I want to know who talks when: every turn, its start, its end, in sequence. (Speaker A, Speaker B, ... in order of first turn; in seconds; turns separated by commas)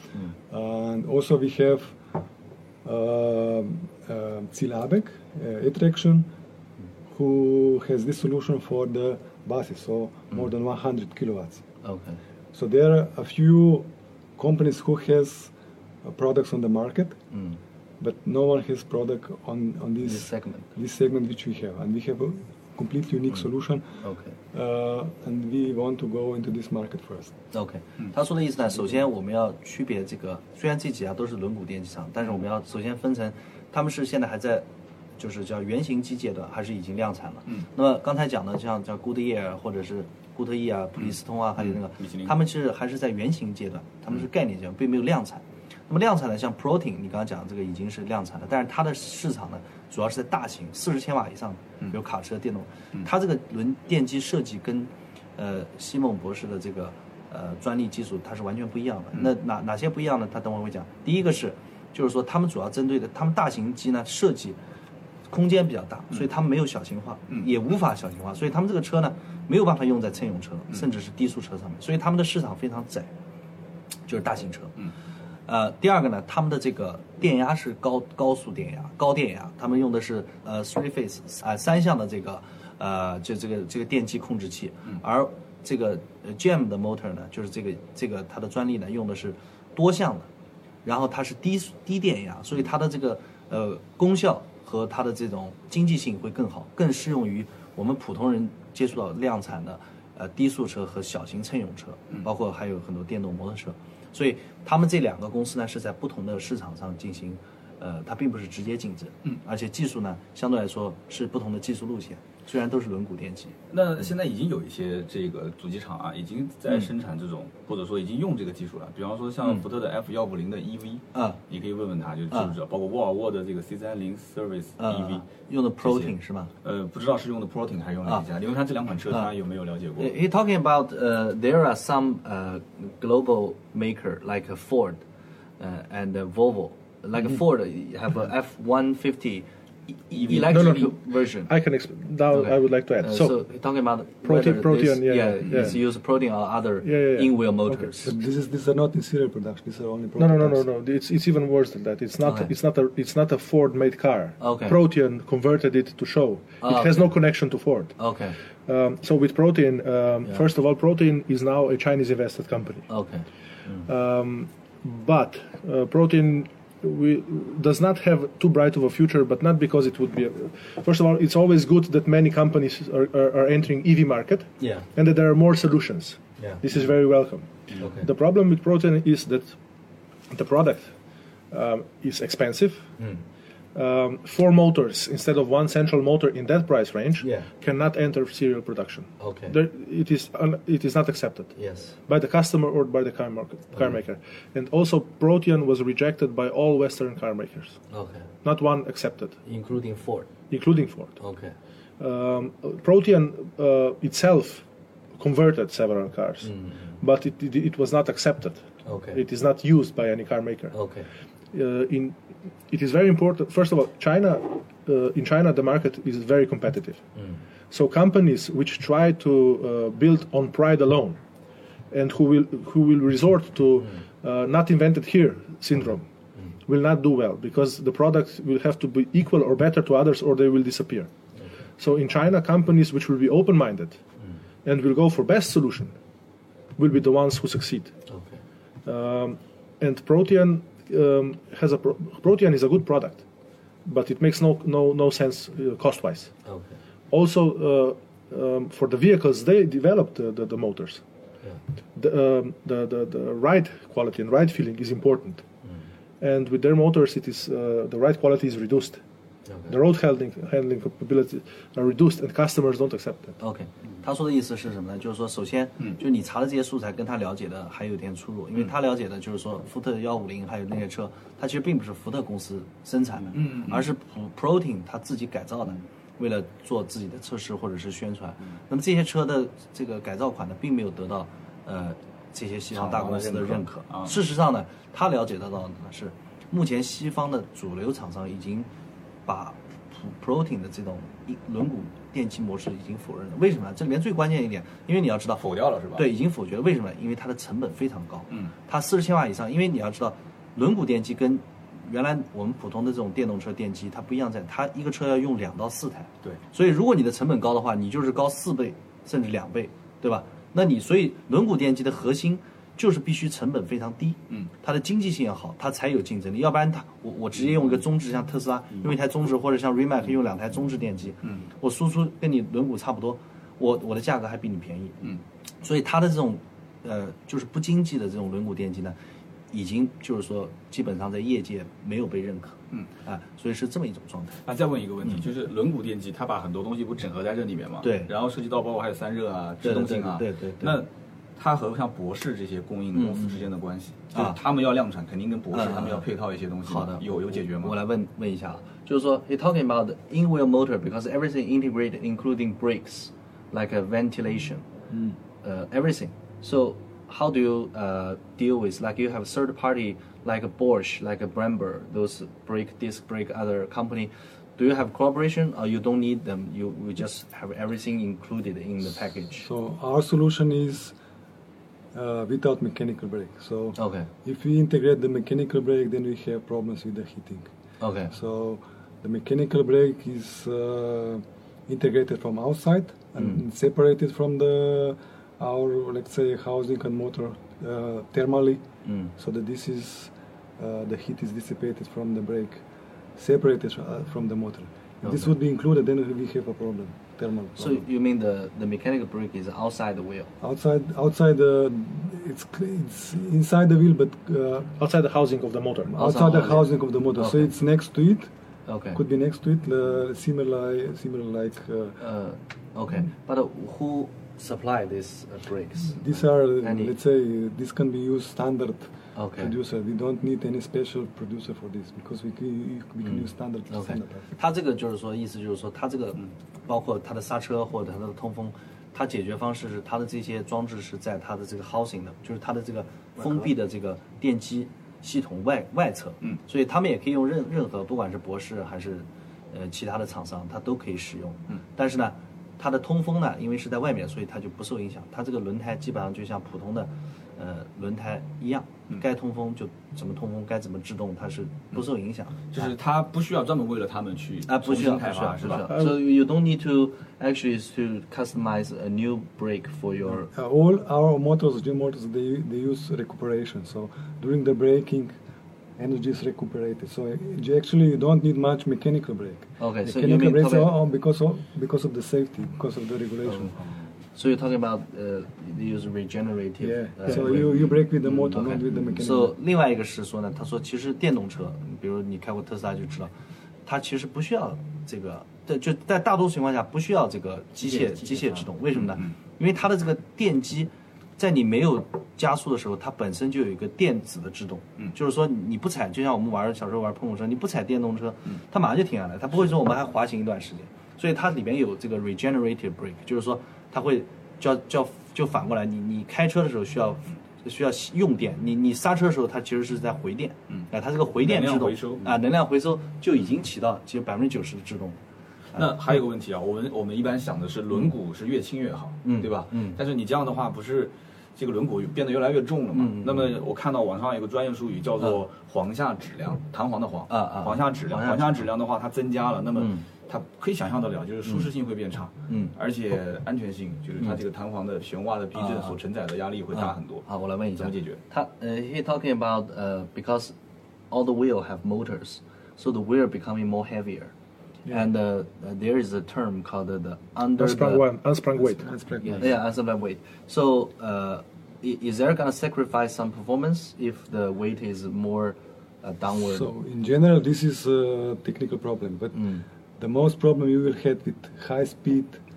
Speaker A: 0.5-1.9, Speaker A: 2.8-6.3, Speaker A: 7.1-11.6, Speaker B: 11.8-12.2, Speaker A: 12.5-15.5, Speaker A: 16.0-17.2, Speaker B: 17.3-17.6, Speaker A: 18.0-23.9, Speaker B: 20.0-20.7, Speaker B: 24.0-24.4, Speaker A: 24.5-27.4, Speaker B: 27.5-34.6, Speaker B: 35.2-64.6, Speaker C: 41.0-42.3, Speaker B: 65.3-73.1, Speaker B: 74.1-74.8, Speaker B: 75.5-90.3, Speaker B: 90.8-113.5, Speaker C: 113.7-125.2, Speaker B: 121.1-121.4, Speaker B: 124.8-126.5, Speaker C: 125.8-130.1, Speaker B: 130.0-135.0, Speaker B: 135.6-139.5, Speaker B: 140.1-141.5, Speaker C: 140.1-140.5, Speaker D: 140.3-143.3, Speaker B: 142.3-148.1, Speaker D: 144.2-145.8, Speaker D: 146.8-147.8, Speaker A: 148.0-150.6, Speaker D: 150.2-157.9, Speaker B: 152.2-152.5, Speaker B: 154.4-154.8, Speaker B: 156.6-157.1, Speaker B: 158.0-158.3, Speaker D: 158.7-162.9, Speaker B: 162.9-163.9, Speaker D: 163.9-179.6, Speaker B: 174.6-174.9, Speaker B: 176.4-176.6, Speaker B: 177.8-178.1, Speaker D: 180.3-180.9, Speaker D: 181.5-182.9, Speaker D: 183.7-191.6, Speaker B: 187.2-187.5, Speaker B: 189.2-189.6, Speaker B: 191.6-192.0, Speaker D: 192.1-197.8, Speaker B: 197.9-198.3, Speaker D: 198.4-199.3, Speaker B: 199.4-200.3, Speaker D: 200.5-201.2, Speaker B: 201.2-201.5, Speaker D: 202.0-204.6, Speaker D: 205.2-210.8, Speaker B: 206.4-206.9, Speaker B: 208.8-209.2, Speaker B: 210.7-211.1, Speaker D: 211.5-212.2, Speaker D: 212.7-217.0, Speaker D: 217.7-221.2, Speaker D: 221.9-226.1, Speaker D: 226.7-231.1, Speaker D: 231.8-234.0, Speaker D: 234.6-235.9, Speaker D: 236.8-237.9, Speaker B: 238.1-238.4, Speaker D: 238.8-243.2, Speaker D: 243.8-246.3, Speaker B: 246.4-246.7, Speaker D: 247.1-251.0, Speaker D: 251.9-255.4, Speaker D: 256.2-259.0, Speaker B: 259.5-259.7, Speaker D: 259.7-263.4, Speaker B: 263.4-288.7, Speaker C: 273.3-273.9, Speaker C: 282.7-284.2, Speaker B: 289.2-295.4, Speaker C: 295.4-296.1, Speaker B: 295.9-325.1, Speaker B: 325.6-329.0, Speaker B: 329.5-334.4, Speaker C: 334.4-347.7, Speaker B: 337.8-338.1, Speaker B: 339.6-340.8, Speaker B: 342.9-343.4, Speaker B: 345.5-346.0, Speaker B: 346.6-354.7, Speaker A: 354.9-355.1, Speaker B: 355.4-369.5, Speaker A: 369.4-370.9, Speaker A: 371.9-377.5, Speaker B: 373.8-374.1, Speaker B: 377.8-378.1, Speaker A: 378.1-388.6, Speaker B: 388.8-389.1, Speaker A: 389.2-392.6, Speaker A: 393.1-397.8, Speaker B: 395.0-395.3, Speaker B: 397.6-400.3, Speaker A: 400.4-404.7, Speaker D: 404.8-405.9, Speaker A: 405.9-408.3, Speaker B: 405.9-407.5, Speaker B: 408.7-409.0, Speaker A: 408.9-412.0, Speaker B: 412.0-416.9, Speaker A: 415.9-424.2, Speaker B: 419.1-419.5, Speaker B: 423.1-452.6, Speaker C: 452.5-455.7, Speaker B: 454.5-460.3, Speaker D: 455.7-455.9, Speaker A: 460.3-465.1, Speaker A: 465.8-473.7, Speaker B: 469.6-470.7, Speaker B: 473.2-473.5, Speaker B: 474.1-483.1, Speaker A: 476.6-479.4, Speaker B: 483.6-515.0, Speaker C: 511.2-512.1, Speaker C: 515.5-537.0, Speaker B: 519.0-519.8, Speaker B: 522.7-523.3, Speaker B: 527.1-528.4, Speaker B: 529.5-529.9, Speaker B: 532.3-532.5, Speaker B: 535.3-535.8, Speaker B: 536.5-540.3, Speaker C: 537.6-538.0, Speaker B: 540.9-544.1, Speaker B: 544.7-547.8, Speaker D: 547.4-548.7, Speaker A: 548.4-549.4, Speaker B: 549.0-556.5, Speaker A: 556.1-562.2, Speaker B: 559.1-559.4